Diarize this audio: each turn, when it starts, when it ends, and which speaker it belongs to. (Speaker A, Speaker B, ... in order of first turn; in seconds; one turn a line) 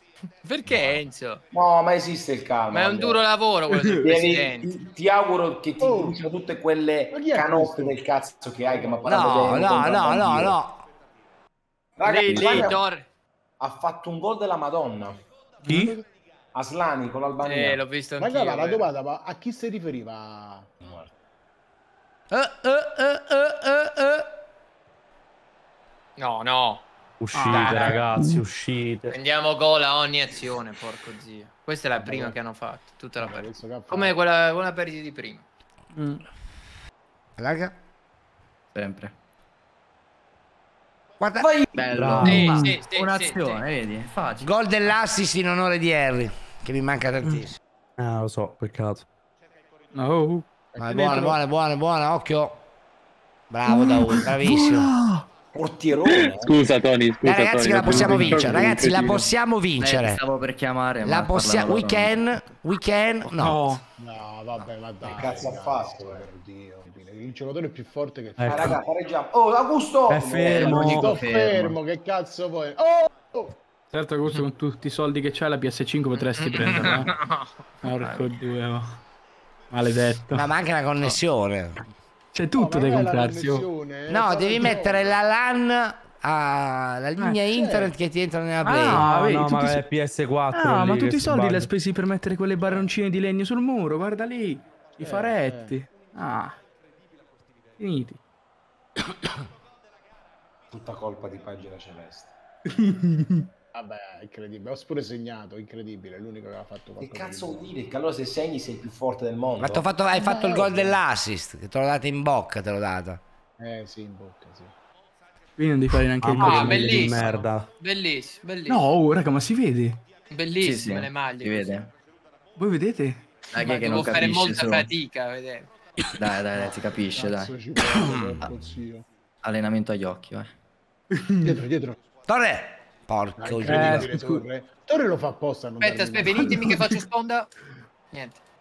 Speaker A: 0.4-1.4
Speaker B: 1.5-3.2
Speaker A: 2.7-4.7
Speaker B: 4.0-10.6
Speaker C: 5.8-6.2
Speaker C: 7.1-8.0
Speaker C: 8.7-9.9
Speaker D: 9.0-10.8
Speaker B: 12.0-12.8
Speaker A: 12.0-13.1
Speaker B: 13.6-15.2
Speaker E: 15.6-16.0
Speaker F: 15.7-15.9
Speaker B: 16.5-17.8
Speaker A: 17.4-18.9
Speaker C: 18.2-20.7
Speaker B: 20.8-21.1
Speaker D: 22.3-24.3
Speaker A: 26.2-26.9
Speaker F: 27.2-29.1
Speaker E: 27.3-28.1
Speaker A: 27.5-28.0
Speaker A: 29.1-35.4
Speaker C: 32.0-32.4
Speaker C: 33.2-34.2
Speaker E: 35.9-36.2
Speaker D: 37.4-37.7
Speaker G: 38.7-39.1
Speaker D: 41.2-41.5
Speaker B: 41.4-41.9
Speaker G: 41.7-44.5
Speaker F: 41.9-42.8
Speaker A: 42.2-43.6
Speaker D: 44.4-47.6
Speaker F: 48.0-49.0
Speaker E: 49.9-50.5
Speaker D: 50.8-52.6
Speaker C: 50.9-51.3
Speaker D: 53.5-54.9
Speaker E: 53.7-55.2
Speaker B: 55.5-56.6
Speaker H: 56.0-59.3
Speaker D: 57.2-60.2
Speaker G: 59.8-62.2
Speaker D: 61.0-63.6
Speaker E: 63.4-63.8
Speaker C: 64.0-68.7
Speaker B: 65.0-66.2
Speaker F: 68.4-68.8
Speaker B: 68.4-71.1
Speaker F: 70.1-71.1
Speaker C: 70.5-73.6
Speaker G: 70.5-71.8
Speaker E: 73.9-77.1
Speaker A: 76.2-78.3
Speaker E: 77.8-79.0
Speaker E: 79.7-80.5
Speaker D: 80.3-81.8
Speaker E: 82.3-83.7
Speaker C: 82.5-85.2
Speaker D: 84.1-89.1
Speaker C: 87.5-87.9
Speaker E: 88.6-89.8
Speaker F: 88.9-91.7
Speaker E: 90.5-96.6
Speaker C: 95.0-95.8
Speaker E: 97.8-98.2
Speaker B: 100.7-102.3
Speaker E: 102.7-103.5
Speaker C: 103.7-107.8
Speaker B: 107.0-109.9
Speaker D: 109.6-113.2
Speaker C: 110.1-111.0
Speaker C: 113.6-114.7
Speaker E: 115.6-117.1
Speaker F: 116.2-117.7
Speaker A: 116.4-118.9
Speaker C: 117.0-117.3
Speaker E: 118.7-120.0
Speaker A: 120.3-121.8
Speaker G: 120.6-121.9
Speaker E: 122.5-123.2
Speaker G: 123.5-124.9
Speaker A: 123.6-125.7
Speaker G: 126.2-127.6
Speaker C: 126.5-129.0
Speaker D: 128.0-128.3
Speaker G: 129.4-130.5
Speaker E: 131.1-131.5
Speaker C: 131.4-132.0
Speaker D: 132.3-134.1
Speaker C: 133.4-136.8
Speaker E: 133.7-134.4
Speaker A: 135.8-137.5
Speaker A: 138.1-138.4